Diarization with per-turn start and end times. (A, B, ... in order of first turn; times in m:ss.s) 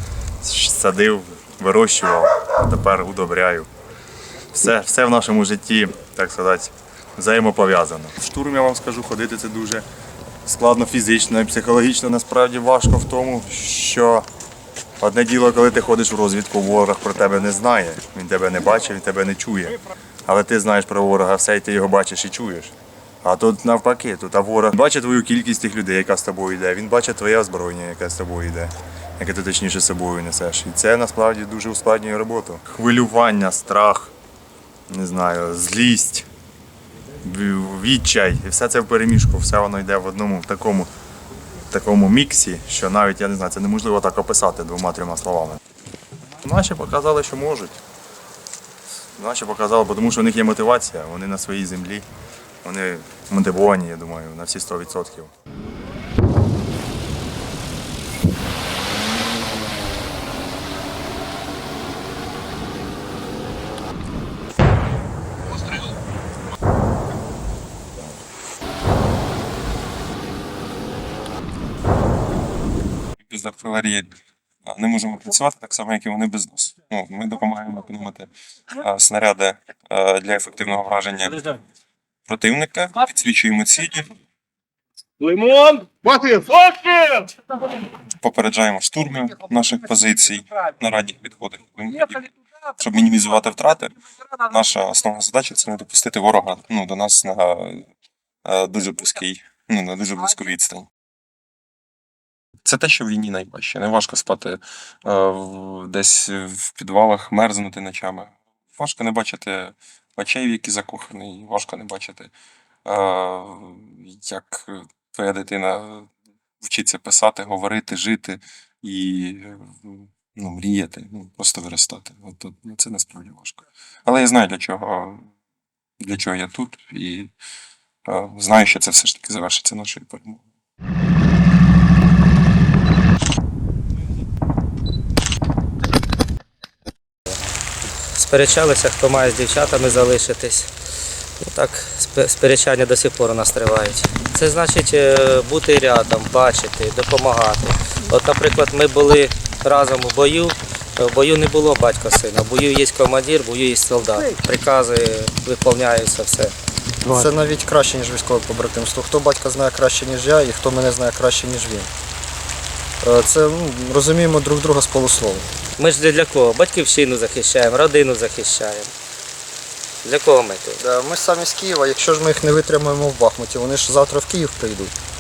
0:00.4-0:03.7 A
0:04.5-0:09.9 A
0:10.4-0:14.3 A
0:15.0-0:34.1 A
0:34.9-0:36.3 A
0:37.2-0:40.9 A
0:41.7-0:45.6 A
0:46.4-0:47.8 A
0:49.2-0:52.1 A
0:52.6-0:55.3 A
1:13.3-1:14.1 B
1:14.7-1:21.6 B
1:22.3-1:24.1 B
1:25.2-1:27.2 C
1:26.9-1:27.3 B
1:28.2-1:37.9 B
1:38.4-1:40.9 B
1:42.6-1:52.3 B
1:52.8-1:56.1 B
1:56.6-2:05.3 B
2:06.0-2:07.3 B
2:08.1-2:10.4 B
2:18.2-2:20.7 D
2:21.4-2:36.6 D
2:37.0-2:41.9 E
2:43.0-2:45.4 E
2:45.8-2:48.9 D
2:50.0-2:50.8 D
2:50.8-2:54.9 E